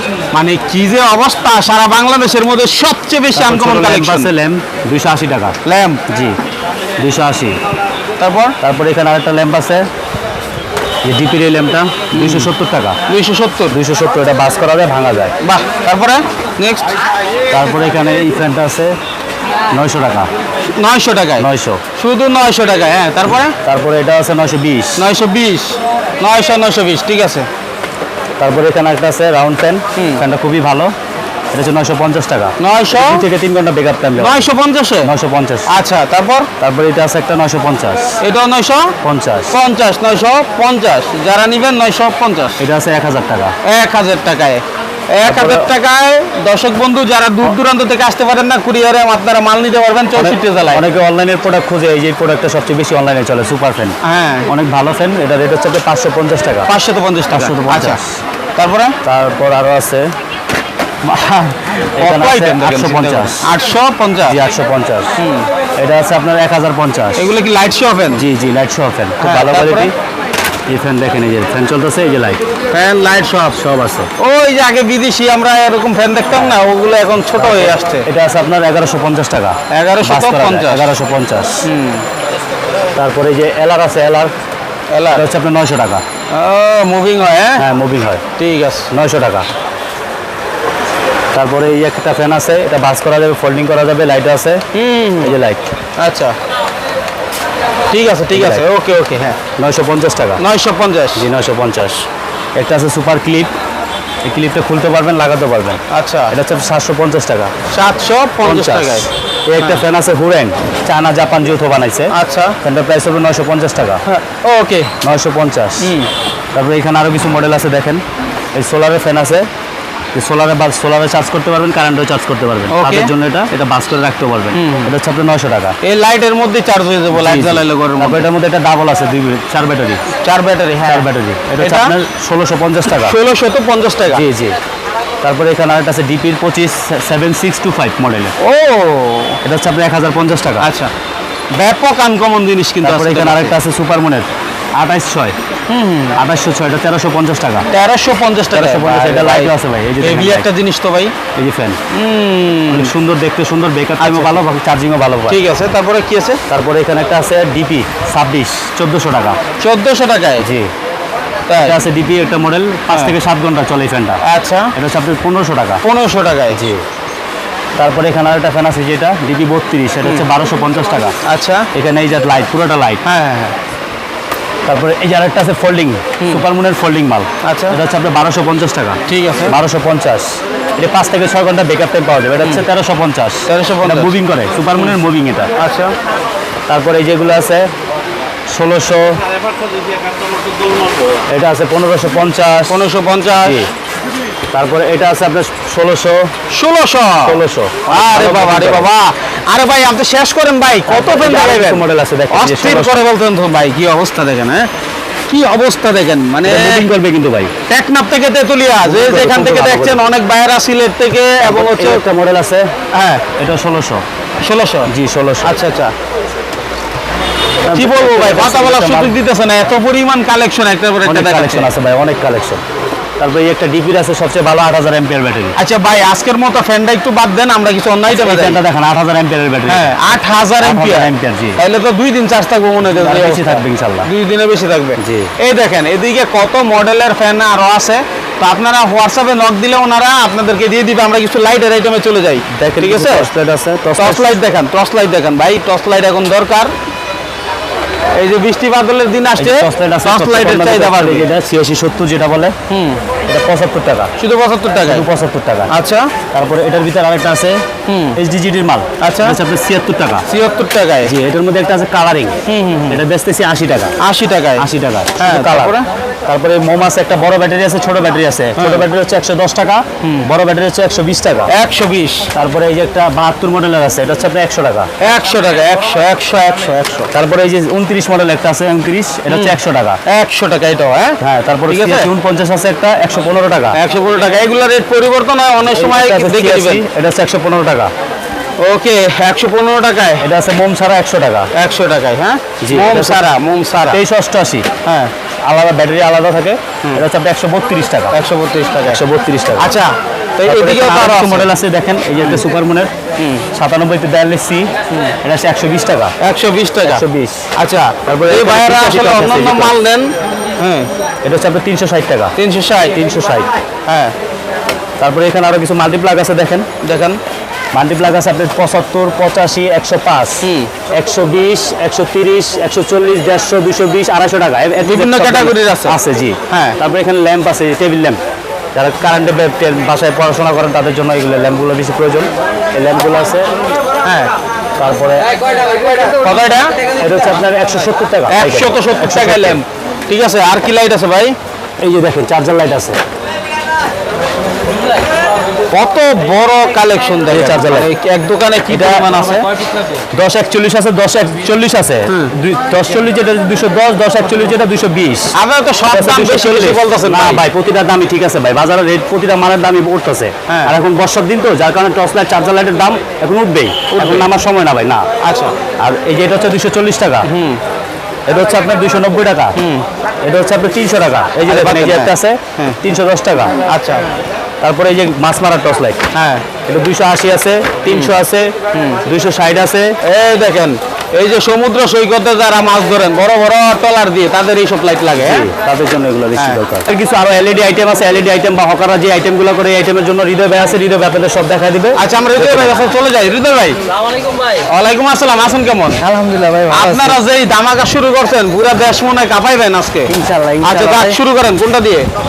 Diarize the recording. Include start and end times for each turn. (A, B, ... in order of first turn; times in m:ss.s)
0:00.3-0:04.3 A
0:03.3-0:05.6 B
0:05.6-0:06.0 A
0:06.1-0:06.4 B
0:07.0-0:07.6 B
0:08.2-0:08.6 A
0:08.6-0:09.9 B
0:11.0-0:13.0 B
0:12.1-0:12.5 A
0:13.1-0:13.8 A
0:13.7-0:15.3 B
0:15.4-0:16.9 A
0:17.5-0:19.0 B
0:19.7-0:20.3 B
0:20.7-0:23.6 A
0:21.4-0:21.8 B
0:23.6-0:25.0 B
0:25.0-0:27.5 A
0:28.4-0:30.9 B
0:30.0-0:30.2 A
0:31.5-0:34.4 B
0:32.6-0:33.2 A
0:34.2-0:35.1 A
0:35.0-0:35.7 B
0:35.6-0:36.5 A
0:36.6-0:38.1 B
0:38.2-0:38.9 A
0:39.0-0:39.5 B
0:39.5-0:42.6 A
0:42.6-0:43.6 B
0:43.6-0:50.8 A
0:45.2-0:45.7 B
0:50.2-0:56.7 B
0:54.0-0:54.5 A
0:56.7-0:58.0 A
0:57.3-0:58.2 B
0:58.6-0:58.9 A
0:59.0-1:00.1 B
1:01.1-1:03.5 B
1:01.8-1:04.4 A
1:04.3-1:05.1 B
1:05.2-1:05.5 A
1:05.8-1:07.2 B
1:07.2-1:08.2 A
1:08.1-1:09.9 B
1:09.2-1:09.9 A
1:10.7-1:12.4 B
1:12.7-1:13.6 A
1:13.5-1:14.1 B
1:14.2-1:18.1 A
1:16.3-1:16.6 B
1:17.4-1:21.6 B
1:19.7-1:20.9 A
1:21.6-1:22.1 A
1:23.0-1:24.3 B
1:24.9-1:25.2 A
1:25.1-1:26.0 B
1:26.3-1:27.6 A
1:27.6-1:28.2 B
1:28.4-1:28.9 A
1:28.9-1:29.5 B
1:31.3-1:34.6 B
1:34.7-1:35.4 A
1:35.2-1:35.6 B
1:36.0-1:36.4 A
1:37.9-1:39.4 A
1:38.3-1:38.6 B
1:39.6-1:40.4 B
1:40.4-1:41.2 A
1:41.2-1:43.5 B
1:44.2-1:47.5 B
1:45.9-1:46.3 A
1:47.7-1:49.8 A
1:48.4-1:54.0 B
1:52.1-1:52.6 A
1:54.0-1:54.9 A
1:55.0-1:55.9 B
1:55.8-1:56.1 A
1:56.5-1:58.0 B
1:58.5-1:59.5 B
2:00.1-2:05.8 B
2:02.7-2:03.1 A
2:04.5-2:04.9 A
2:05.8-2:08.3 A
2:07.1-2:10.0 B
2:10.2-2:11.9 A
2:10.8-2:13.2 B
2:12.9-2:14.2 A
2:14.1-2:14.6 B
2:15.2-2:18.3 B
2:18.4-2:19.4 A
2:19.4-2:20.7 B
2:20.6-2:20.9 A
2:21.5-2:23.6 A
2:22.8-2:25.4 B
2:25.7-2:26.2 A
2:26.2-2:27.7 B
2:27.7-2:31.1 A
2:28.5-2:30.5 B
2:31.4-2:31.8 B
2:31.9-2:32.9 A
2:32.7-2:35.4 B
2:34.0-2:34.4 A
2:35.3-2:36.4 A
2:36.5-2:39.4 B
2:39.6-2:40.4 A
2:40.4-2:40.7 B
2:41.5-2:41.8 A
2:41.6-2:44.2 B
2:42.9-2:43.1 A
2:44.2-2:44.7 A
2:44.7-2:45.8 B
2:45.8-2:46.6 A
2:46.5-2:46.8 B
2:47.8-2:51.2 B
2:51.2-2:51.7 A
2:51.7-2:53.0 B
2:53.0-2:53.6 A
2:54.6-3:05.5 B
2:57.4-2:57.8 A
2:59.0-2:59.5 A
3:03.5-3:04.1 A
3:05.6-3:05.9 A
3:06.7-3:07.7 B
3:08.5-3:09.2 B
3:11.3-3:12.8 B
3:12.7-3:13.7 A
3:13.4-3:13.7 B
3:14.5-3:16.3 B
3:16.5-3:24.7 A
3:17.2-3:18.9 B
3:20.9-3:23.0 B
3:25.3-3:26.8 A
3:26.4-3:27.5 B
3:27.7-3:32.0 A
3:28.8-3:30.0 B
3:31.4-3:32.7 B
3:32.9-3:33.2 A
3:33.4-3:34.0 B
3:34.4-3:34.9 A
3:34.9-3:35.6 B
3:35.4-3:35.9 A
3:37.6-3:39.1 B
3:37.7-3:41.7 A
3:41.0-3:42.6 B
3:43.2-3:45.5 B
3:45.6-3:48.6 A
3:48.1-3:49.9 B
3:49.7-4:03.3 A
3:50.6-3:51.6 B
3:52.9-3:54.1 B
3:55.0-3:55.3 B
4:02.5-4:04.4 B
4:04.0-4:06.7 A
4:08.1-4:11.3 A
4:09.4-4:12.5 B
4:12.7-4:13.0 A
4:13.3-4:14.1 B
4:14.2-4:15.0 A
4:14.8-4:15.7 B
4:15.7-4:16.1 A
4:16.3-4:17.6 B
4:17.9-4:18.2 A
4:18.1-4:20.2 B
4:19.0-4:19.4 A
4:20.3-4:21.1 A
4:21.0-4:22.4 B
4:22.4-4:23.0 A
4:22.9-4:23.9 B
4:24.0-4:24.6 A
4:24.6-4:31.5 B
4:25.2-4:25.9 A
4:28.6-4:28.9 A
4:30.0-4:30.3 A
4:31.5-4:32.3 A
4:32.3-4:34.9 B
4:35.0-4:37.1 A
4:37.1-4:40.0 B
4:39.3-4:39.5 A
4:40.0-4:42.1 A
4:41.2-4:43.8 B
4:43.7-4:46.8 A
4:45.7-4:47.9 B
4:48.6-4:50.2 A
4:50.2-4:51.5 B
4:51.5-4:54.0 A
4:52.6-4:53.2 B
4:53.8-4:54.7 B
4:54.8-4:55.1 A
4:55.4-4:58.2 B
4:58.1-4:59.0 A
4:58.9-4:59.7 B
4:59.6-5:01.5 A
5:00.4-5:02.9 B
5:02.2-5:02.4 A
5:03.2-5:03.4 A
5:03.5-5:04.7 B
5:05.2-5:06.1 B
5:06.2-5:07.0 A
5:06.8-5:07.4 B
5:07.6-5:10.9 A
5:08.0-5:09.8 B
5:11.2-5:12.3 B
5:12.4-5:13.0 A
5:12.9-5:13.5 B
5:13.8-5:14.1 A
5:15.0-5:16.7 B
5:16.8-5:17.2 A
5:17.7-5:28.2 B
5:20.4-5:20.7 A
5:24.8-5:26.0 A
5:26.5-5:26.8 A
5:28.7-5:33.5 B
5:34.0-5:34.3 A
5:34.8-5:35.3 B
5:36.0-5:36.7 A
5:37.0-5:39.6 B
5:38.3-5:41.4 A
5:41.8-5:43.0 B
5:45.7-5:49.5 A
5:47.3-5:47.9 B
5:48.7-5:49.5 B
5:50.1-5:55.3 B
5:52.1-5:52.3 A
5:55.3-5:57.4 A
5:55.9-6:05.0 B
6:00.5-6:00.7 A
6:03.9-6:04.3 A
6:05.2-6:05.5 A
6:05.8-6:07.3 B
6:07.2-6:07.6 A
6:08.3-6:09.5 B
6:09.6-6:09.8 A
6:10.2-6:13.6 B
6:11.5-6:12.8 A
6:13.6-6:14.1 A
6:14.6-6:16.0 B
6:16.1-6:16.4 A
6:16.7-6:18.5 B
6:17.9-6:18.1 A
6:18.7-6:19.0 A
6:19.0-6:20.0 B
6:20.0-6:25.5 A
6:25.2-6:32.8 B
6:26.4-6:26.6 A
6:32.0-6:33.8 A
6:34.1-6:34.6 C
6:34.6-6:36.0 A
6:36.0-6:37.2 C
6:36.7-6:42.1 A
6:40.1-6:41.2 C